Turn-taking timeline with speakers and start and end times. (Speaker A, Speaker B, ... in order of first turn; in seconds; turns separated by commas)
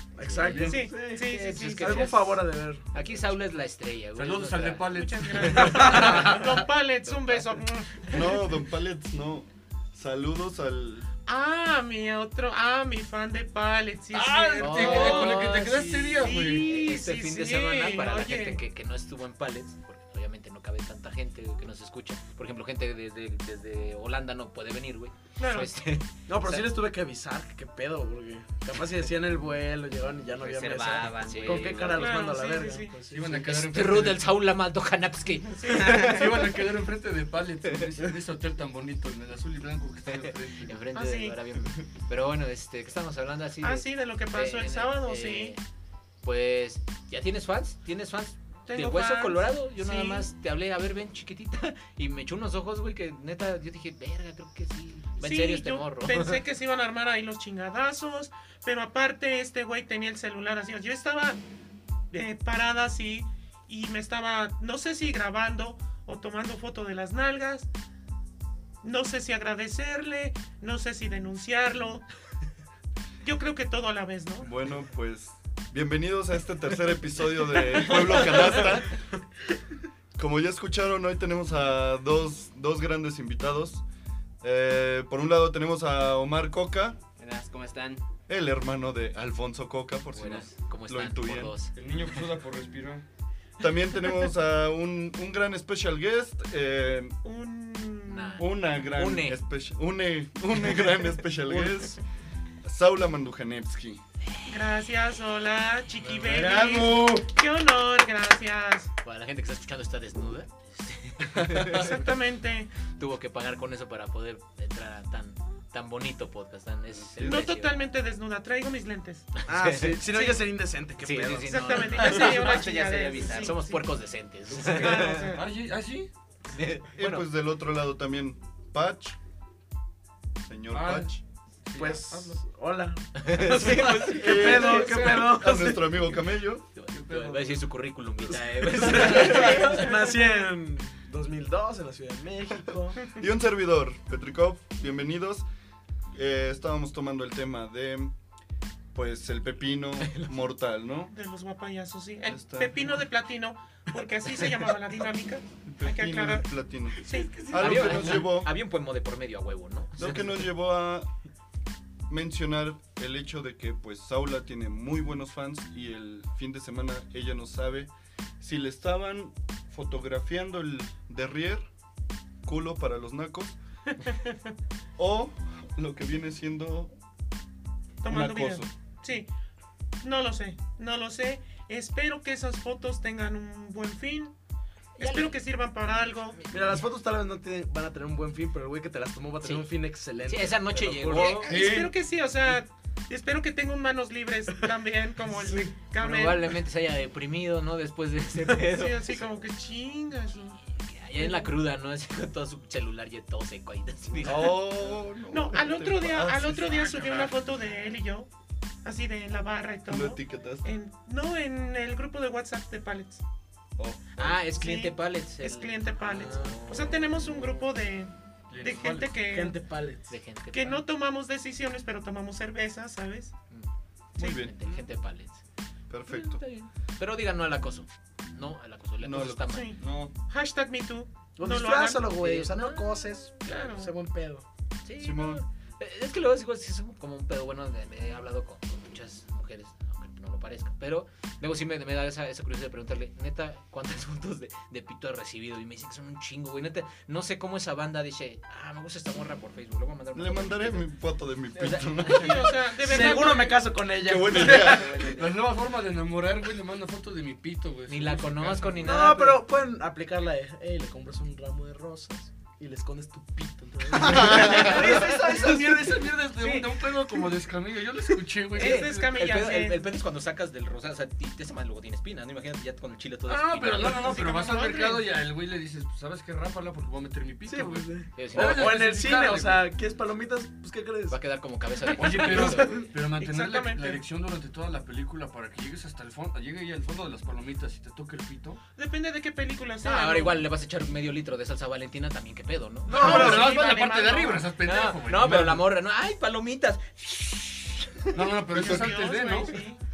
Speaker A: 0.2-2.9, Speaker B: 0.2-4.8, Speaker C: 0.6-2.2, Speaker D: 4.2-6.6, Speaker C: 4.9-8.2, Speaker B: 5.4-6.4, Speaker B: 7.1-8.1, Speaker E: 8.1-11.1, Speaker C: 11.2-15.5, Speaker D: 14.1-16.7, Speaker B: 14.6-26.7, Speaker C: 16.1-18.6, Speaker C: 25.4-25.7, Speaker A: 26.3-33.5, Speaker F: 30.4-32.1, Speaker B: 31.0-31.9, Speaker C: 31.9-33.0, Speaker D: 33.1-34.3, Speaker B: 33.3-36.4, Speaker C: 35.5-36.2, Speaker D: 35.7-40.8, Speaker B: 40.6-45.6, Speaker C: 40.9-41.4, Speaker C: 43.6-45.6, Speaker B: 46.2-56.4, Speaker C: 48.7-50.3, Speaker C: 55.2-61.4, Speaker C: 62.1-67.7, Speaker C: 68.8-72.0, Speaker C: 73.2-74.5, Speaker E: 74.4-78.9, Speaker E: 80.2-83.8, Speaker E: 84.4-87.0, Speaker F: 87.2-88.0, Speaker E: 88.3-91.5, Speaker B: 90.1-91.7, Speaker D: 91.8-93.0, Speaker E: 93.6-97.2, Speaker C: 97.2-98.5, Speaker B: 98.1-99.4, Speaker E: 98.4-102.0, Speaker E: 102.6-104.0, Speaker C: 104.5-108.9, Speaker D: 106.0-107.2, Speaker B: 109.0-112.0, Speaker C: 111.7-112.7, Speaker B: 112.9-117.8, Speaker E: 117.2-117.5, Speaker C: 117.2-119.4, Speaker B: 119.4-120.0, Speaker A: 119.5-122.3, Speaker C: 120.1-120.4, Speaker B: 121.0-125.4, Speaker C: 121.5-123.9, Speaker F: 122.1-123.6, Speaker C: 124.6-125.5, Speaker D: 124.8-126.1, Speaker B: 126.5-127.3, Speaker E: 127.0-129.2, Speaker E: 130.4-131.2, Speaker D: 130.7-132.4, Speaker A: 131.8-136.1, Speaker B: 133.2-134.9, Speaker E: 134.1-136.7, Speaker C: 134.4-135.3, Speaker B: 136.8-139.9, Speaker D: 136.9-137.6, Speaker A: 138.5-143.0, Speaker D: 138.9-139.4, Speaker C: 139.3-139.8, Speaker E: 143.1-145.4, Speaker E: 146.1-148.1, Speaker E: 148.9-151.1, Speaker B: 150.0-150.4, Speaker C: 151.1-158.0, Speaker E: 152.3-153.0, Speaker E: 155.7-158.5, Speaker B: 157.5-160.4, Speaker E: 159.9-161.1, Speaker E: 162.1-171.7, Speaker E: 172.4-173.6, Speaker C: 174.0-174.3, Speaker E: 175.0-176.9, Speaker C: 178.0-179.3, Speaker E: 178.1-178.7, Speaker C: 180.0-184.3, Speaker C: 185.0-186.4, Speaker B: 185.0-185.4, Speaker A: 186.5-191.6, Speaker B: 190.2-191.5, Speaker C: 191.1-196.6, Speaker D: 191.4-191.9, Speaker B: 195.9-199.2, Speaker C: 198.6-200.6, Speaker B: 200.7-204.7, Speaker C: 201.2-201.5, Speaker E: 204.2-207.2, Speaker C: 205.3-208.3, Speaker D: 206.9-207.3, Speaker C: 208.8-213.2, Speaker E: 209.9-210.7, Speaker E: 213.8-214.4, Speaker B: 214.2-217.1, Speaker C: 214.5-219.6, Speaker A: 216.0-216.7, Speaker D: 218.5-219.2, Speaker A: 219.3-220.1, Speaker B: 220.1-220.8, Speaker C: 220.5-223.3, Speaker B: 223.5-225.4, Speaker E: 224.2-224.5, Speaker E: 225.9-226.4, Speaker B: 226.1-229.8, Speaker E: 229.0-230.1, Speaker C: 229.5-232.1, Speaker A: 231.4-234.4, Speaker B: 232.2-233.1, Speaker C: 233.4-233.9, Speaker B: 234.8-250.9, Speaker E: 235.0-235.4, Speaker E: 250.1-252.6, Speaker B: 251.6-252.4, Speaker C: 252.1-253.7, Speaker A: 252.8-255.1, Speaker E: 254.0-255.0, Speaker F: 254.5-255.3, Speaker D: 254.6-259.1, Speaker B: 257.9-259.4, Speaker A: 258.8-266.0, Speaker D: 264.0-269.1, Speaker B: 264.3-264.9, Speaker C: 268.5-270.0, Speaker B: 268.6-274.2, Speaker D: 273.3-279.7, Speaker C: 273.9-275.1, Speaker A: 277.5-281.2, Speaker B: 278.2-278.8, Speaker B: 281.1-282.9, Speaker D: 282.0-288.6, Speaker C: 282.4-284.0, Speaker C: 288.8-290.4, Speaker B: 289.8-293.5, Speaker A: 292.9-293.8, Speaker D: 292.9-295.7, Speaker C: 292.9-294.5, Speaker B: 294.6-298.2, Speaker D: 298.1-299.6, Speaker C: 298.5-299.8